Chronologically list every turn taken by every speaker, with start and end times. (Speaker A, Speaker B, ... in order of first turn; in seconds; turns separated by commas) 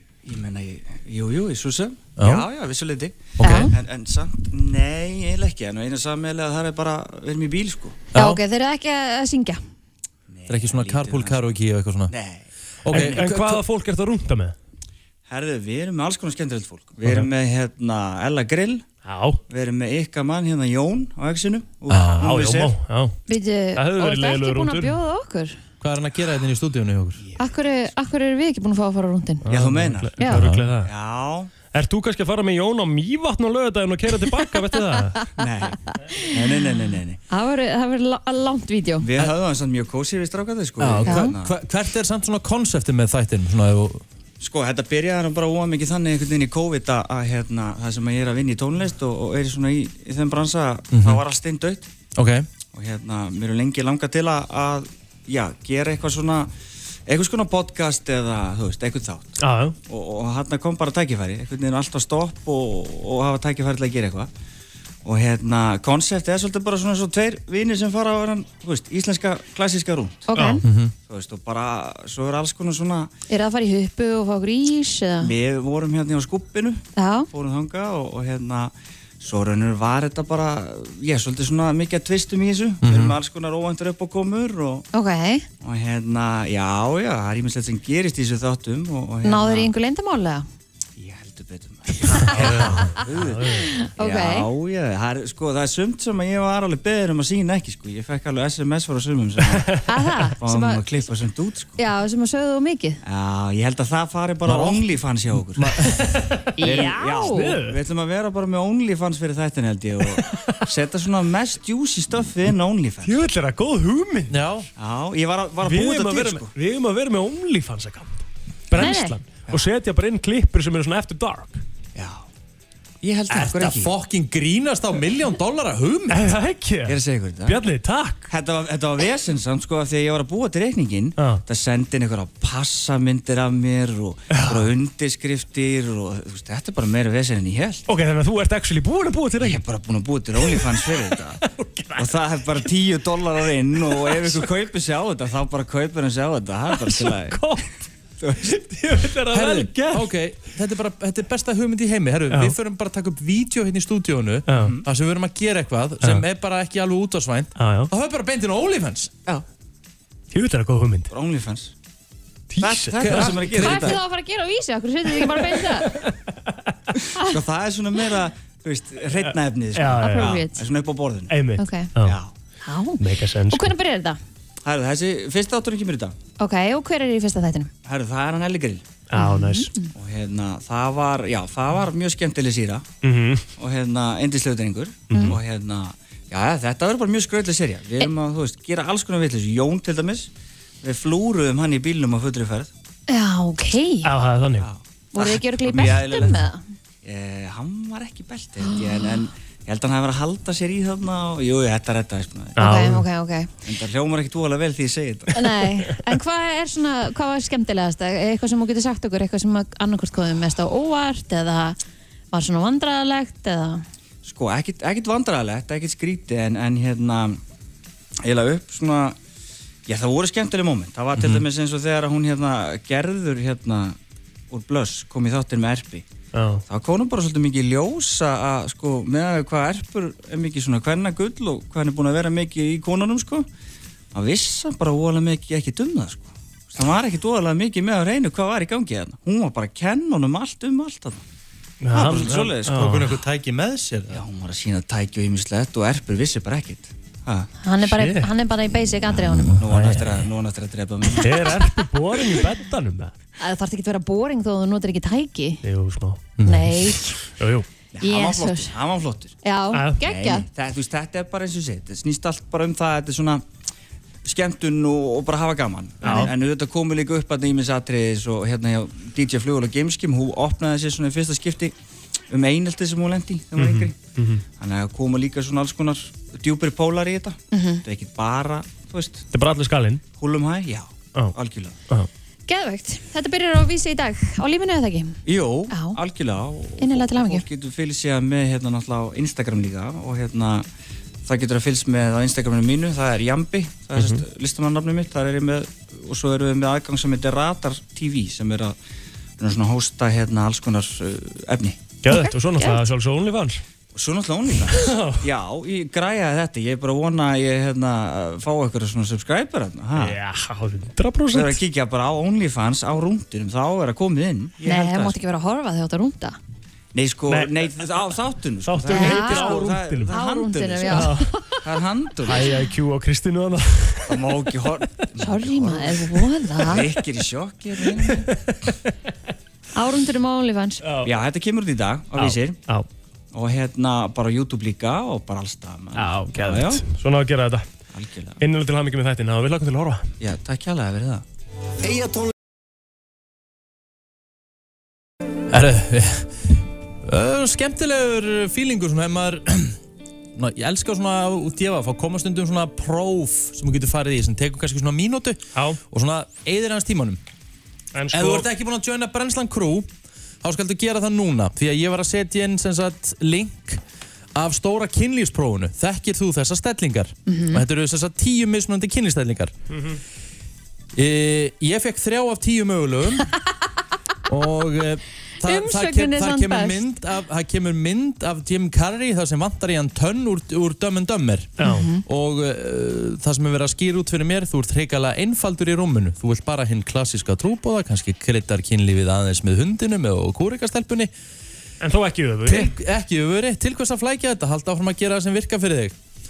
Speaker A: 0.2-8.0, Speaker B: 2.2-2.5, Speaker B: 3.4-3.7, Speaker C: 3.4-3.7, Speaker B: 8.1-8.4, Speaker C: 8.2-9.6, Speaker A: 10.3-11.4, Speaker B: 10.5-12.1, Speaker A: 12.1-13.2, Speaker B: 12.8-13.6, Speaker D: 12.9-14.6, Speaker A: 15.3-18.9, Speaker D: 19.1-19.4, Speaker A: 19.5-22.7, Speaker B: 21.9-22.3, Speaker D: 22.1-23.2, Speaker C: 23.3-25.6, Speaker D: 23.8-24.9, Speaker B: 25.8-27.2, Speaker C: 27.4-29.4, Speaker D: 29.4-30.9, Speaker A: 29.5-30.2, Speaker B: 30.3-30.7, Speaker A: 30.8-31.5, Speaker D: 31.7-35.2, Speaker A: 35.4-37.2, Speaker C: 35.9-36.6, Speaker C: 37.3-39.1, Speaker A: 39.0-41.5, Speaker B: 40.8-44.0, Speaker C: 41.0-41.3, Speaker A: 44.4-51.9, Speaker B: 50.9-51.2, Speaker B: 52.2-52.5, Speaker A: 52.7-56.5, Speaker A: 57.1-59.4, Speaker D: 59.4-59.8, Speaker A: 59.9-64.3, Speaker A: 65.0-70.3, Speaker C: 70.3-70.6, Speaker D: 70.3-70.6, Speaker B: 70.6-70.9, Speaker A: 71.1-73.1, Speaker C: 73.3-75.3, Speaker A: 75.2-84.9, Speaker C: 77.0-77.3, Speaker B: 82.8-83.2, Speaker C: 84.9-85.5, Speaker A: 85.6-89.7, Speaker C: 89.2-90.5, Speaker A: 91.0-99.8, Speaker D: 92.3-93.7, Speaker C: 93.5-94.5, Speaker C: 99.9-100.8, Speaker A: 100.4-101.8, Speaker C: 101.8-103.0, Speaker A: 103.0-105.7, Speaker B: 104.5-104.8, Speaker B: 105.5-106.2, Speaker D: 106.0-107.8, Speaker C: 106.6-107.5, Speaker A: 106.6-113.2, Speaker D: 110.3-110.6, Speaker D: 113.0-114.4, Speaker B: 114.3-114.7, Speaker A: 114.8-116.5, Speaker D: 115.6-121.6, Speaker C: 118.8-119.2, Speaker A: 122.0-122.2, Speaker A: 123.0-123.9, Speaker B: 123.3-126.3, Speaker D: 126.1-128.3, Speaker A: 126.9-127.6, Speaker A: 128.3-137.8, Speaker D: 131.2-131.4, Speaker D: 134.3-134.7, Speaker D: 137.9-139.6, Speaker A: 139.4-141.4, Speaker D: 140.4-142.4, Speaker A: 142.0-147.5, Speaker D: 143.9-144.4, Speaker D: 146.7-147.7, Speaker A: 148.2-148.5, Speaker D: 148.4-150.1, Speaker B: 149.3-159.1, Speaker D: 154.5-154.8, Speaker A: 154.6-154.8, Speaker D: 157.6-157.9, Speaker D: 160.3-161.1, Speaker A: 161.1-161.7, Speaker D: 162.5-163.6, Speaker A: 162.6-164.0, Speaker B: 163.0-163.9, Speaker C: 163.5-166.0, Speaker D: 165.4-166.2, Speaker A: 167.2-171.3, Speaker D: 169.2-170.4, Speaker C: 170.0-170.6, Speaker D: 171.3-172.2, Speaker C: 171.6-171.9, Speaker A: 172.0-172.3, Speaker C: 172.6-174.2, Speaker D: 173.0-173.7, Speaker A: 174.6-176.2, Speaker C: 176.4-177.7, Speaker A: 177.8-178.8, Speaker D: 179.1-179.7, Speaker C: 179.2-179.9, Speaker A: 179.9-182.8, Speaker D: 183.0-183.4, Speaker A: 183.6-190.3, Speaker D: 185.1-185.4, Speaker C: 185.1-185.4, Speaker A: 190.8-192.7, Speaker C: 193.1-194.1, Speaker D: 194.0-194.7, Speaker A: 194.6-196.4, Speaker C: 195.1-196.6, Speaker A: 197.0-202.6, Speaker C: 198.6-199.1, Speaker C: 202.6-203.5, Speaker D: 202.6-203.1, Speaker A: 203.7-205.5, Speaker C: 205.3-211.8, Speaker C: 212.3-213.8, Speaker A: 214.2-217.4, Speaker A: 218.2-219.2, Speaker A: 219.9-224.0, Speaker B: 221.2-221.4, Speaker A: 224.5-226.1, Speaker D: 226.3-226.6, Speaker A: 226.7-233.5, Speaker A: 234.1-241.2, Speaker D: 241.8-243.2, Speaker A: 241.9-242.9, Speaker B: 242.7-244.2, Speaker A: 244.1-247.5, Speaker C: 247.6-249.6, Speaker D: 247.8-248.3, Speaker B: 249.3-250.0, Speaker A: 249.5-251.7, Speaker D: 251.2-253.2, Speaker C: 253.4-255.6, Speaker D: 255.6-256.2, Speaker B: 256.4-256.9, Speaker C: 256.4-257.1, Speaker D: 257.4-257.7, Speaker A: 257.9-259.4, Speaker C: 258.0-258.8, Speaker C: 259.4-260.5, Speaker D: 259.7-260.0, Speaker A: 260.0-263.4, Speaker A: 264.2-271.7, Speaker C: 266.0-266.3, Speaker D: 266.0-266.3, Speaker A: 272.3-274.0, Speaker D: 273.6-274.4, Speaker A: 274.6-279.2, Speaker C: 277.5-277.8, Speaker D: 279.3-280.0, Speaker A: 280.2-281.8, Speaker C: 282.5-285.2, Speaker A: 285.3-290.7, Speaker C: 285.7-286.0, Speaker C: 286.8-287.4, Speaker A: 291.2-298.8, Speaker D: 294.0-294.2, Speaker A: 299.4-301.9, Speaker D: 302.0-303.6, Speaker C: 302.1-302.8, Speaker A: 303.9-310.2, Speaker D: 304.7-305.3, Speaker D: 310.0-311.6, Speaker A: 311.3-315.2, Speaker C: 314.6-316.4, Speaker A: 316.9-322.6, Speaker D: 317.3-317.8, Speaker D: 318.7-320.1, Speaker C: 318.9-321.6, Speaker D: 320.9-321.5, Speaker D: 322.2-324.4, Speaker A: 324.1-326.0, Speaker C: 325.2-326.9, Speaker A: 326.6-328.3, Speaker D: 327.8-328.8, Speaker C: 329.8-330.8, Speaker D: 330.8-331.1, Speaker A: 331.0-332.6, Speaker D: 332.1-332.9, Speaker A: 333.3-336.8, Speaker D: 335.9-337.6, Speaker A: 337.9-338.4, Speaker D: 338.4-340.1, Speaker A: 340.2-341.2, Speaker B: 345.5-349.8, Speaker B: 350.4-357.2, Speaker D: 355.6-355.8, Speaker D: 357.9-358.5, Speaker B: 358.1-359.9, Speaker B: 360.4-363.8, Speaker B: 364.4-369.5, Speaker C: 367.3-367.6, Speaker D: 369.7-370.0, Speaker B: 370.9-373.3, Speaker B: 374.3-391.1, Speaker C: 375.4-376.9, Speaker D: 381.6-381.9, Speaker C: 381.6-382.0, Speaker D: 391.8-392.8, Speaker B: 392.5-395.9